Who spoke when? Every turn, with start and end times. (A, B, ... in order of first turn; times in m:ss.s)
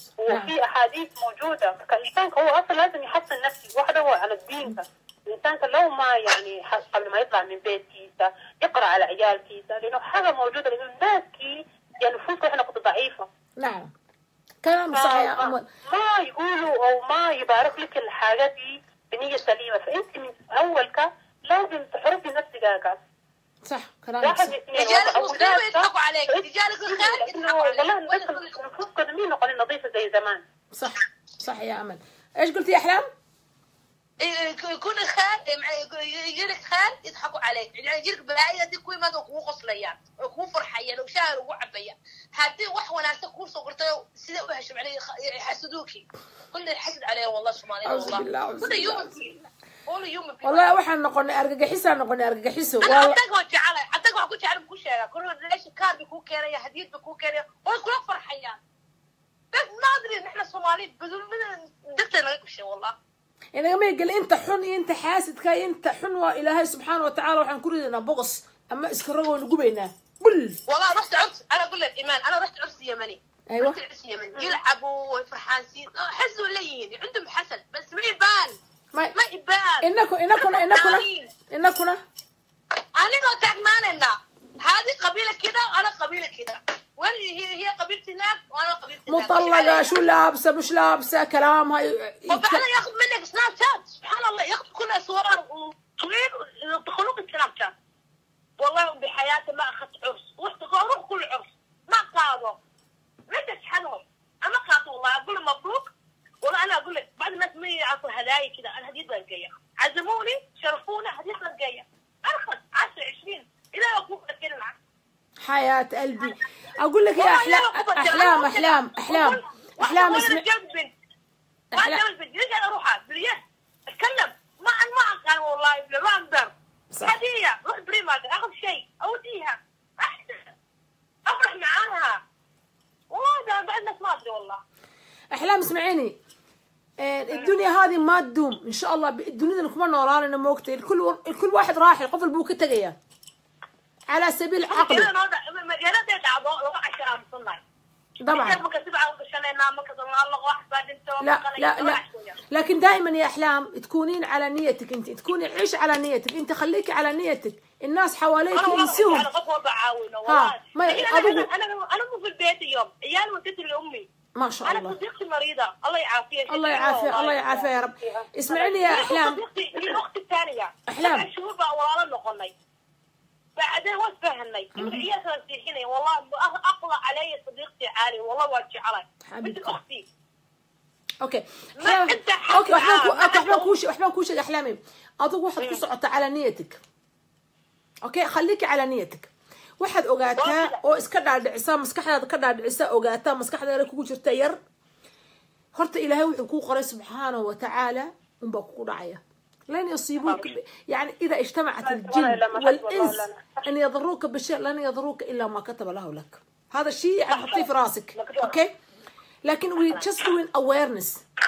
0:00.2-0:13.3 A
0:00.3-0:00.5 B
0:13.6-0:13.9 B
0:14.6-0:15.6 B
0:14.9-0:23.0 A
0:23.6-0:24.6 B
0:24.2-0:30.4 A
0:24.7-0:28.6 C
0:30.7-0:33.1 B
0:34.2-0:50.7 C
0:47.8-0:49.2 B
0:50.4-0:53.2 B
0:52.8-0:58.6 C
0:59.5-1:03.0 C
1:03.5-1:10.6 B
1:10.7-1:18.6 C
1:13.5-1:13.8 B
1:19.1-1:21.3 C
1:19.8-1:22.0 B
1:22.9-1:30.0 C
1:29.1-1:32.6 B
1:32.3-1:37.7 C
1:38.6-1:42.6 C
1:43.3-1:45.9 C
1:46.4-1:54.7 C
1:55.4-2:00.5 B
1:57.2-2:00.9 C
2:01.7-2:02.0 B
2:01.7-2:10.4 C
2:11.2-2:12.2 C
2:13.1-2:14.6 C
2:15.3-2:16.2 B
2:17.0-2:23.0 B
2:24.1-2:25.1 B
2:24.7-2:27.6 C
2:28.2-2:28.6 B
2:28.3-2:32.4 C
2:31.2-2:39.3 B
2:38.5-2:44.1 C
2:40.2-2:41.5 B
2:44.4-2:45.0 B
2:44.6-2:47.7 C
2:46.5-2:49.4 B
2:48.5-2:52.5 C
2:50.9-2:51.3 B
2:53.6-3:00.0 C
2:54.8-2:55.0 B
2:59.3-2:59.8 B
3:01.2-3:06.8 B
3:01.8-3:03.7 C
3:08.0-3:14.6 B
3:10.4-3:10.8 C
3:15.7-3:28.7 B
3:21.8-3:23.6 A
3:28.2-3:28.5 C
3:29.4-3:31.2 B